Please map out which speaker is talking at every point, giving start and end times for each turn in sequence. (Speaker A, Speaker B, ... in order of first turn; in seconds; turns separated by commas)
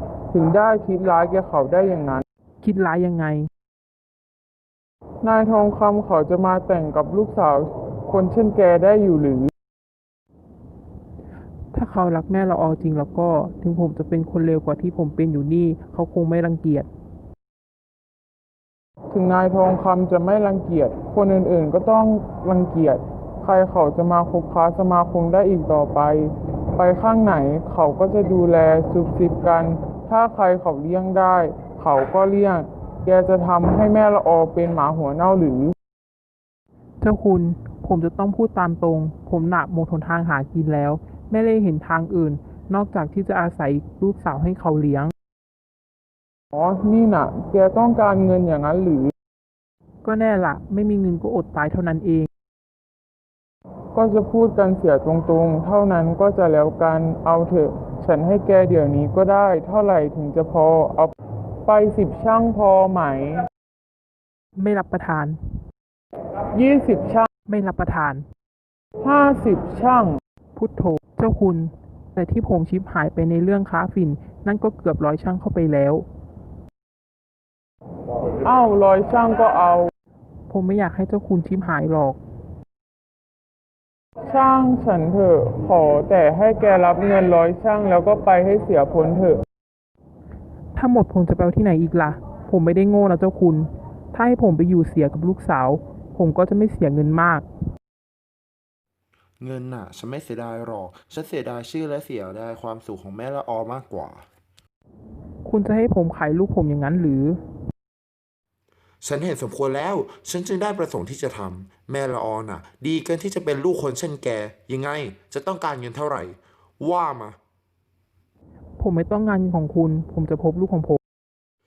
Speaker A: 0.3-2.2, Speaker B: 2.6-3.5, Speaker A: 5.2-9.5, Speaker B: 11.7-16.9, Speaker A: 19.1-35.7, Speaker B: 37.0-45.1, Speaker A: 46.5-49.1, Speaker B: 50.0-52.3, Speaker A: 53.9-61.1, Speaker A: 61.6-63.5, Speaker B: 64.6-65.6, Speaker A: 66.5-67.3, Speaker B: 67.5-68.2, Speaker A: 69.0-70.2, Speaker B: 70.6-76.1, Speaker A: 78.4-79.9, Speaker B: 80.5-82.2, Speaker A: 84.3-89.4, Speaker B: 90.8-97.5, Speaker C: 99.4-104.3, Speaker B: 105.4-107.4, Speaker C: 109.0-117.4, Speaker B: 118.8-121.0